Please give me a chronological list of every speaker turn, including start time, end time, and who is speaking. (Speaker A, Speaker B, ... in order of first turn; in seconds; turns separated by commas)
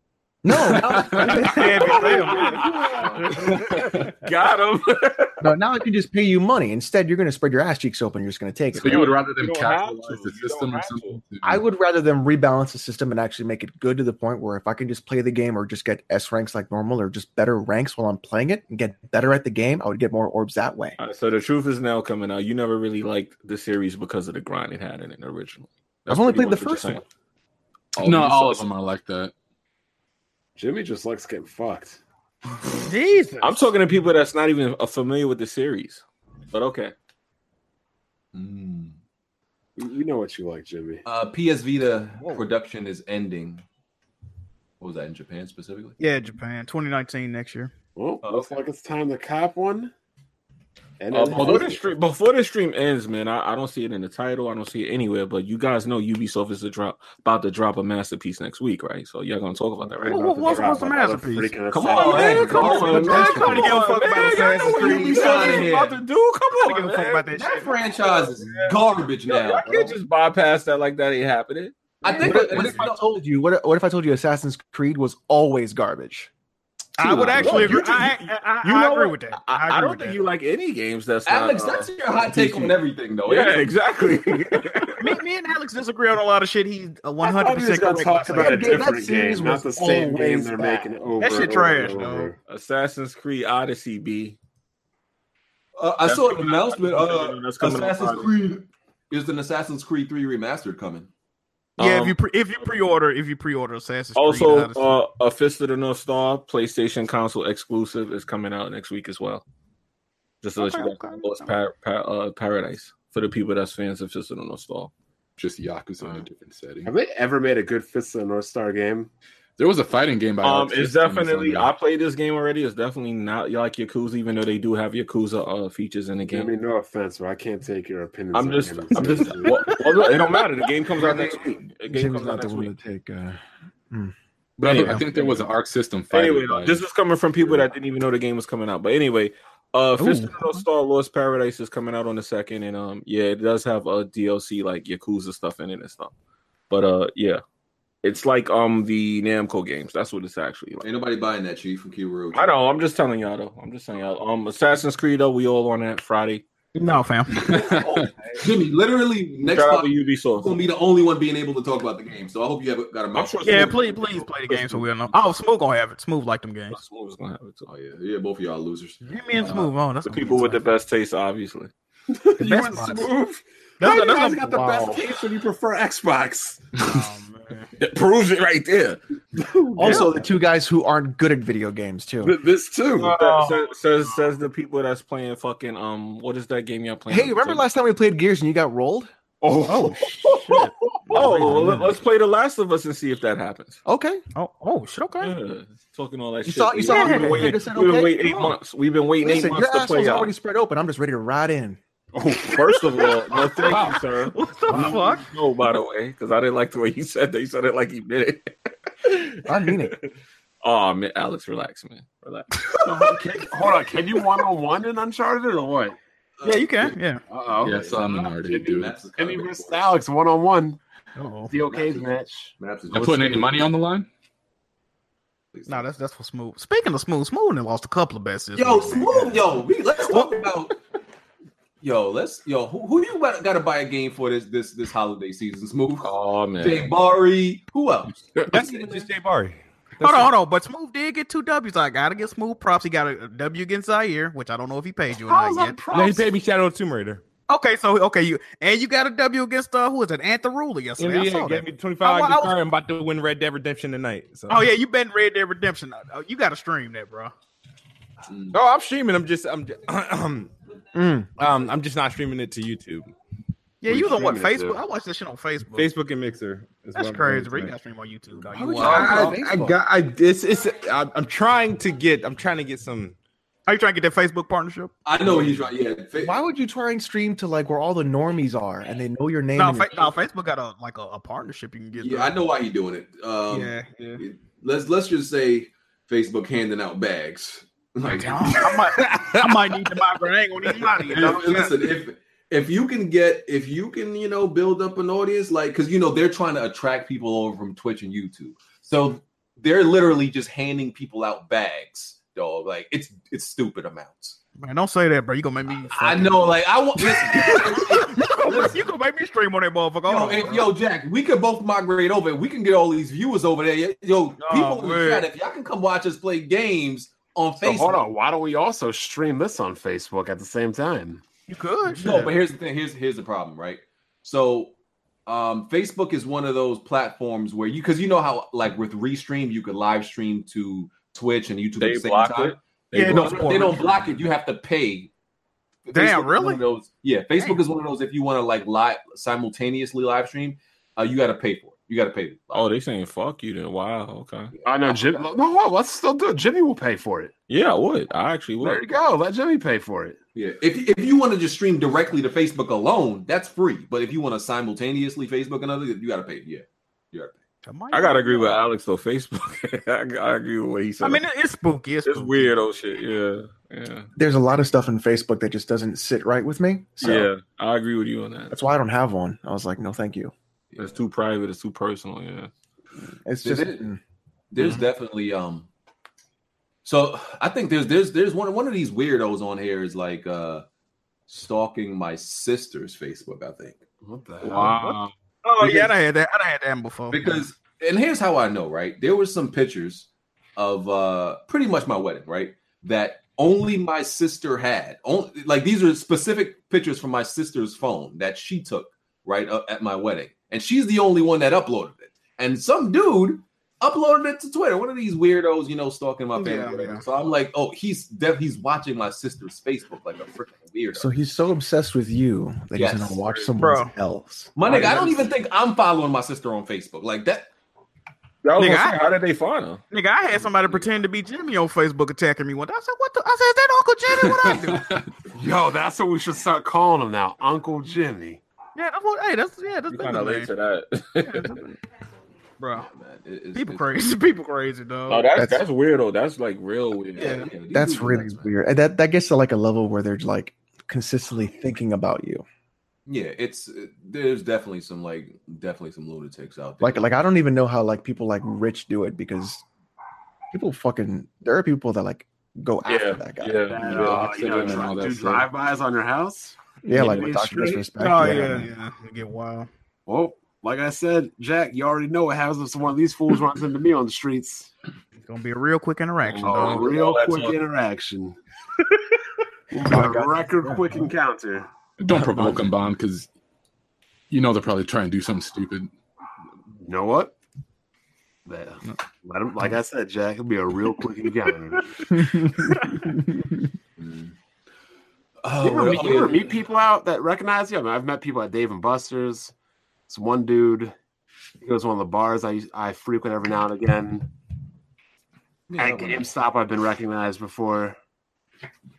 Speaker A: 0.4-2.3, Speaker B: 0.5-1.5, Speaker C: 1.1-5.5, Speaker D: 1.4-3.8, Speaker B: 3.6-4.1, Speaker A: 5.4-9.1, Speaker C: 8.7-11.2, Speaker B: 8.7-11.6, Speaker A: 11.4-21.0, Speaker C: 21.0-27.0, Speaker A: 26.1-27.0, Speaker C: 27.9-28.7, Speaker B: 28.0-29.3, Speaker E: 30.6-32.0, Speaker D: 32.8-33.6, Speaker C: 33.4-36.9, Speaker F: 38.3-39.0, Speaker E: 39.8-41.0, Speaker F: 41.0-43.6, Speaker F: 44.8-45.9, Speaker D: 46.0-47.7, Speaker E: 48.0-49.9, Speaker E: 51.0-51.8, Speaker C: 51.1-60.7, Speaker D: 60.0-65.7, Speaker E: 60.0-63.4, Speaker C: 61.7-67.3, Speaker F: 61.9-63.6, Speaker A: 62.6-63.8, Speaker A: 64.3-65.2, Speaker F: 64.7-66.0, Speaker D: 66.6-67.7, Speaker F: 67.3-69.8, Speaker C: 68.4-68.7, Speaker C: 69.2-72.8, Speaker F: 72.0-73.2, Speaker A: 72.0-76.3, Speaker D: 77.0-80.2, Speaker A: 77.0-77.7, Speaker C: 77.0-85.2, Speaker F: 81.2-83.7, Speaker D: 85.0-88.8, Speaker E: 87.2-92.3, Speaker A: 88.3-90.9, Speaker D: 91.2-92.3, Speaker C: 92.5-94.3, Speaker F: 95.8-101.1, Speaker C: 96.0-98.3, Speaker C: 101.8-102.2, Speaker D: 101.8-104.9, Speaker C: 104.1-109.4, Speaker C: 110.4-114.9, Speaker D: 110.6-111.5, Speaker B: 115.4-116.9, Speaker E: 116.8-119.1, Speaker B: 119.6-121.7, Speaker C: 120.4-126.5, Speaker E: 126.3-129.6, Speaker C: 128.3-132.7, Speaker D: 129.1-130.4, Speaker A: 131.0-133.4, Speaker B: 134.6-136.8, Speaker C: 134.6-135.4, Speaker C: 136.1-146.1, Speaker D: 140.0-140.6, Speaker C: 146.7-147.4, Speaker C: 148.0-150.8, Speaker F: 150.8-152.6, Speaker C: 152.3-156.4, Speaker D: 156.7-157.8, Speaker B: 157.4-158.1, Speaker F: 157.4-163.8, Speaker C: 159.4-160.5, Speaker C: 163.1-164.9, Speaker D: 163.4-166.8, Speaker C: 166.7-167.7, Speaker F: 167.7-169.6, Speaker D: 169.0-170.6, Speaker C: 169.4-171.7, Speaker E: 172.1-176.7, Speaker D: 172.4-173.1, Speaker D: 173.8-175.1, Speaker D: 176.8-177.7, Speaker C: 177.8-179.0, Speaker E: 179.4-180.2, Speaker A: 179.8-182.4, Speaker E: 182.2-183.1, Speaker C: 183.0-187.6, Speaker D: 183.1-184.1, Speaker A: 187.1-189.1, Speaker E: 189.4-191.7, Speaker D: 189.7-190.7, Speaker A: 191.1-191.8, Speaker C: 191.1-193.8, Speaker D: 191.2-191.8, Speaker A: 193.8-194.2, Speaker D: 194.3-195.3, Speaker C: 195.2-200.3, Speaker A: 196.4-198.4, Speaker D: 196.8-197.6, Speaker A: 199.2-201.8, Speaker E: 202.2-202.7, Speaker C: 202.4-209.9, Speaker D: 202.4-205.2, Speaker E: 203.6-203.9, Speaker E: 204.7-205.1, Speaker A: 209.4-209.9, Speaker C: 210.6-212.6, Speaker D: 212.7-213.2, Speaker E: 212.8-216.0, Speaker F: 216.4-216.9, Speaker D: 216.4-217.2, Speaker E: 217.3-220.8, Speaker F: 217.6-219.9, Speaker B: 217.6-218.9, Speaker D: 221.2-221.5, Speaker E: 221.5-222.5, Speaker F: 221.7-222.0, Speaker F: 222.6-223.6, Speaker B: 222.9-224.1, Speaker F: 225.5-225.8, Speaker D: 225.7-229.4, Speaker F: 228.6-230.8, Speaker D: 230.1-230.5, Speaker F: 231.8-239.1, Speaker C: 236.0-236.9, Speaker G: 238.5-240.3, Speaker D: 240.0-245.8, Speaker E: 245.1-246.2, Speaker G: 245.9-247.2, Speaker D: 247.5-251.4, Speaker G: 251.0-254.7, Speaker A: 251.3-251.6, Speaker D: 252.0-252.6, Speaker D: 254.5-257.3, Speaker F: 258.3-258.6, Speaker G: 258.5-260.5, Speaker A: 260.9-261.3, Speaker G: 261.4-263.1, Speaker D: 263.8-265.9, Speaker E: 263.8-264.8, Speaker G: 265.8-267.7, Speaker D: 266.9-269.3, Speaker A: 268.5-269.8, Speaker G: 268.8-273.1, Speaker D: 273.7-274.9, Speaker F: 275.1-276.3, Speaker A: 276.1-280.1, Speaker D: 279.5-282.3, Speaker F: 281.9-288.9, Speaker D: 283.5-284.2, Speaker D: 288.1-291.7, Speaker G: 288.9-289.7, Speaker G: 290.9-291.2, Speaker F: 291.1-304.4, Speaker D: 304.6-310.7, Speaker F: 305.9-308.8, Speaker F: 310.1-318.0, Speaker D: 314.4-315.3, Speaker E: 317.6-321.2, Speaker D: 321.5-322.3, Speaker F: 321.9-324.7, Speaker F: 325.2-335.1, Speaker C: 331.8-333.9, Speaker D: 332.9-334.0, Speaker F: 335.9-342.7, Speaker D: 335.9-336.6, Speaker C: 342.5-344.5, Speaker F: 344.5-345.3, Speaker E: 344.6-347.3, Speaker C: 347.5-348.8, Speaker E: 348.6-350.2, Speaker F: 350.3-357.4, Speaker D: 357.6-358.6, Speaker C: 357.9-361.2, Speaker D: 361.0-362.5, Speaker C: 362.0-364.1, Speaker A: 364.1-367.3, Speaker C: 367.0-368.6, Speaker A: 368.5-370.3, Speaker F: 370.7-371.0, Speaker C: 370.8-372.5, Speaker A: 373.2-374.0, Speaker F: 373.4-373.8, Speaker F: 374.5-375.7, Speaker F: 376.8-380.6, Speaker F: 381.3-383.8, Speaker E: 384.0-384.8, Speaker C: 384.4-385.1, Speaker D: 384.6-387.4, Speaker F: 385.6-385.9, Speaker F: 387.1-411.1, Speaker D: 406.4-407.0, Speaker A: 410.9-415.3, Speaker F: 412.7-413.2, Speaker D: 413.6-413.9, Speaker F: 414.6-417.5, Speaker C: 418.4-419.8, Speaker D: 418.6-419.0, Speaker D: 419.9-424.9, Speaker E: 425.3-428.4, Speaker D: 428.8-430.5, Speaker C: 429.9-431.7, Speaker D: 431.2-431.7, Speaker D: 432.6-432.9, Speaker F: 432.8-433.9, Speaker D: 433.5-435.3, Speaker C: 435.1-437.5, Speaker A: 435.4-435.6, Speaker D: 437.2-437.5, Speaker F: 437.2-438.5, Speaker A: 437.7-442.4, Speaker F: 443.1-447.1, Speaker A: 446.8-449.6, Speaker A: 450.5-453.9, Speaker C: 452.8-455.1, Speaker E: 453.7-457.8, Speaker B: 453.7-455.5, Speaker A: 456.8-458.7, Speaker D: 457.9-459.7, Speaker E: 460.1-464.7, Speaker D: 465.2-466.9, Speaker C: 466.2-467.6, Speaker E: 466.4-468.4, Speaker E: 469.7-471.7, Speaker A: 469.8-471.0, Speaker B: 472.0-473.3, Speaker B: 474.3-475.9, Speaker E: 476.8-477.3, Speaker E: 478.4-481.9, Speaker D: 482.0-483.1, Speaker A: 482.1-482.7, Speaker F: 484.0-484.3, Speaker F: 485.4-486.6, Speaker E: 485.6-489.5, Speaker E: 490.1-490.9, Speaker E: 491.6-494.3, Speaker F: 495.7-496.3, Speaker E: 495.8-498.0